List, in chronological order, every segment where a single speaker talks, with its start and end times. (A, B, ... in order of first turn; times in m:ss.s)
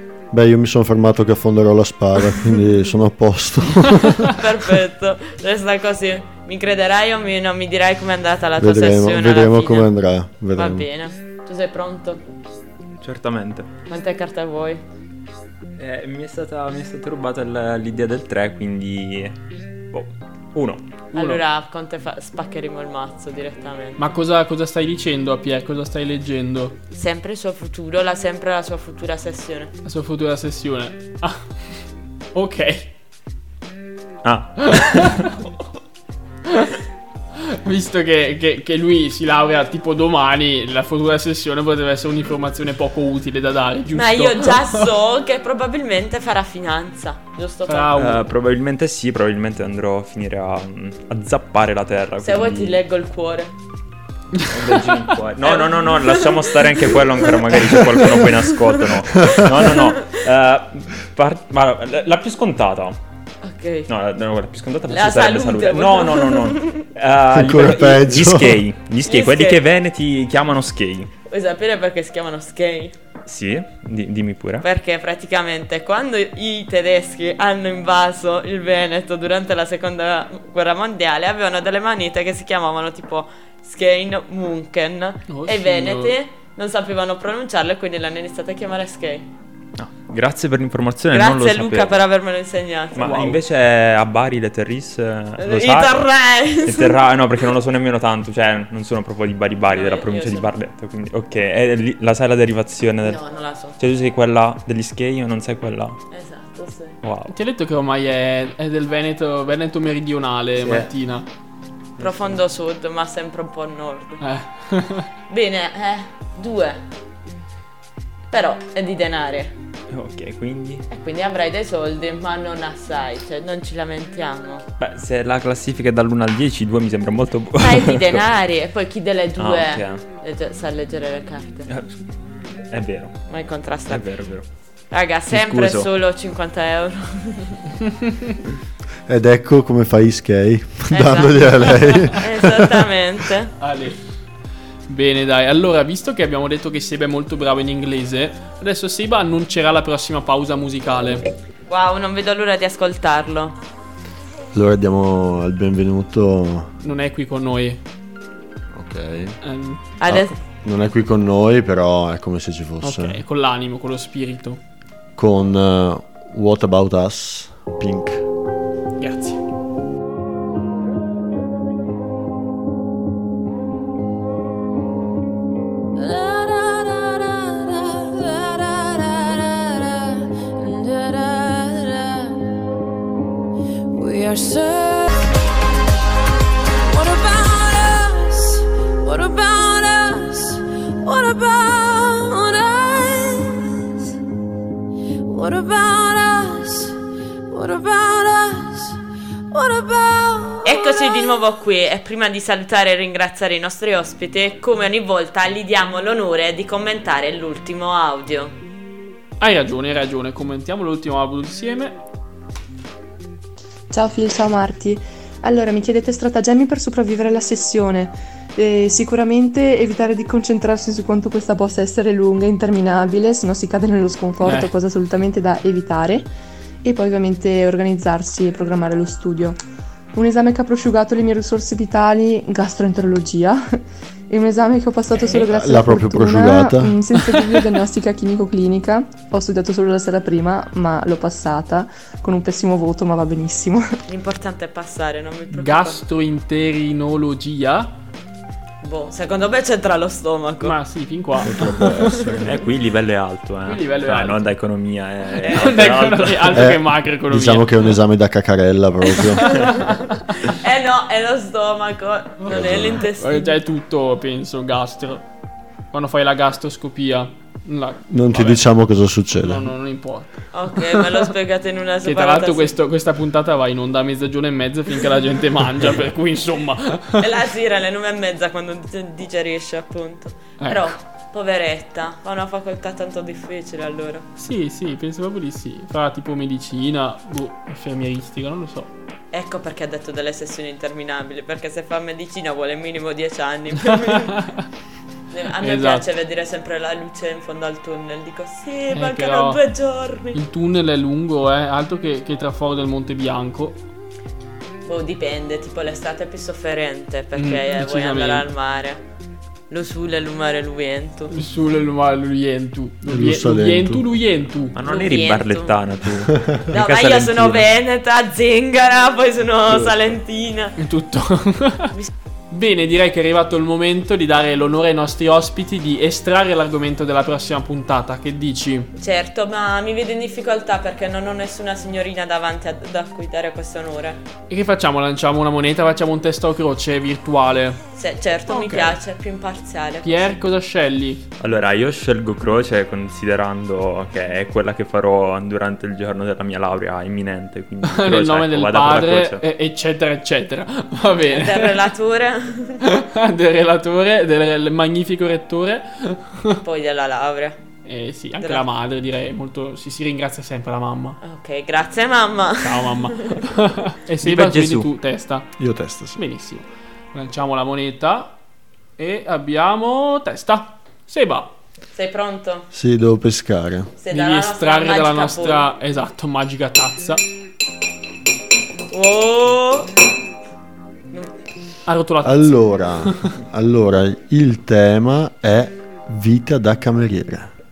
0:00.3-0:04.5 A
0:04.2-0:09.9 B
0:08.6-0:10.9 A
0:10.6-0:12.2 B
0:13.0-0:13.7 C
0:13.9-0:14.8 B
0:15.8-0:19.4 C
0:19.9-0:20.8 C
0:21.1-0:21.4 D
0:21.1-0:24.0 B
0:24.0-0:26.8 D
0:26.9-0:29.7 B
0:29.8-0:31.6 D
0:32.3-0:32.9 D
0:34.2-0:35.4 C
0:34.7-0:35.4 D
0:37.4-0:44.8 D
0:43.9-0:47.9 B
0:47.7-0:48.2 D
0:48.0-0:52.8 C
0:52.2-0:53.5 B
0:54.5-1:03.0 C
0:55.4-1:00.2 B
1:03.4-1:03.9 B
1:03.9-1:11.1 C
1:04.9-1:06.9 B
1:07.3-1:08.6 A
1:09.1-1:09.6 B
1:11.3-1:13.0 B
1:13.3-1:14.6 C
1:14.6-1:29.3 B
1:25.3-1:26.1 D
1:29.8-1:32.0 C
1:31.1-1:33.2 B
1:33.0-1:36.1 C
1:33.0-1:33.4 D
1:35.4-1:37.2 B
1:36.6-1:43.2 C
1:39.7-1:40.5 B
1:43.0-1:43.8 B
1:43.8-1:46.0 C
1:46.1-1:47.0 B
1:47.0-1:47.3 C
1:47.3-1:51.3 D
1:50.6-1:50.9 C
1:52.0-1:54.2 B
1:52.0-1:52.3 C
1:54.2-1:55.1 D
1:55.3-1:56.8 B
1:58.3-1:59.6 B
1:59.9-2:00.9 C
2:00.9-2:04.6 B
2:04.8-2:08.2 C
2:07.6-2:11.7 B
2:09.4-2:10.0 C
2:11.7-2:13.2 C
2:13.3-2:14.1 B
2:13.9-2:14.4 C
2:14.9-2:17.6 B
2:15.3-2:15.9 C
2:19.1-2:22.7 A
2:20.9-2:23.5 B
2:23.6-2:24.0 D
2:24.9-2:31.2 D
2:31.7-2:33.6 B
2:34.5-2:36.7 A
2:36.8-2:37.8 D
2:38.7-2:39.4 A
2:39.4-2:39.8 D
2:40.0-2:40.3 B
2:40.0-2:43.2 A
2:42.8-2:44.6 D
2:45.2-2:48.3 A
2:49.0-2:49.4 D
2:56.0-3:02.6 E
3:03.9-3:05.3 E
3:06.9-3:13.7 E
3:15.3-3:21.4 E
3:20.6-3:28.6 B
3:29.4-3:32.0 D
3:33.9-3:46.3 F
3:44.4-3:44.7 D
3:46.8-3:49.6 F
3:50.1-3:53.8 F
3:54.3-4:03.9 F
3:55.4-3:57.0 A
4:04.1-4:06.0 B
4:05.5-4:08.0 D
4:08.8-4:10.8 B
4:10.6-4:11.9 D
4:11.4-4:12.6 A
4:12.4-4:16.7 C
4:13.6-4:14.4 D
4:15.4-4:17.8 D
4:15.5-4:15.9 B
4:16.5-4:19.8 A
4:19.4-4:19.9 D
4:20.4-4:23.5 B
4:22.5-4:23.0 A
4:23.0-4:25.2 D
4:25.9-4:28.6 D
4:28.1-4:29.7 A
4:29.4-4:31.1 D
4:30.5-4:32.8 B
4:32.0-4:37.3 D
4:37.2-4:44.3 B
4:40.6-4:41.0 D
4:44.4-4:48.9 D
4:49.3-4:54.5 B
4:54.3-4:54.7 D
4:55.3-5:00.4 B
4:55.6-4:56.1 D
4:58.9-4:59.6 D
5:00.3-5:03.8 D
5:04.8-5:09.0 B
5:07.4-5:08.5 D
5:09.7-5:11.3 B
5:11.3-5:14.8 D
5:13.1-5:14.0 A
5:14.7-5:17.7 C
5:14.8-5:15.8 B
5:16.7-5:20.8 B
5:20.8-5:21.9 D
5:22.5-5:28.9 D
5:29.0-5:34.2 B
5:34.5-5:37.8 D
5:38.0-5:40.3 B
5:38.5-5:39.0 D
5:40.0-5:41.2 D
5:41.4-5:49.4 C
5:47.9-5:51.8 D
5:51.3-5:52.8 B
5:52.8-5:56.6 D
5:56.5-5:57.6 B
5:57.8-6:01.2 D
6:01.2-6:03.4 B
6:02.6-6:05.5 D
6:04.2-6:04.9 C
6:05.6-6:06.2 A
6:06.2-6:08.3 D
6:09.0-6:11.5 D
6:11.9-6:12.7 B
6:12.7-6:13.9 A
6:14.0-6:15.7 B
6:14.1-6:17.2 D
6:18.9-6:19.9 B
6:21.9-6:23.2 D
6:22.2-6:27.5 A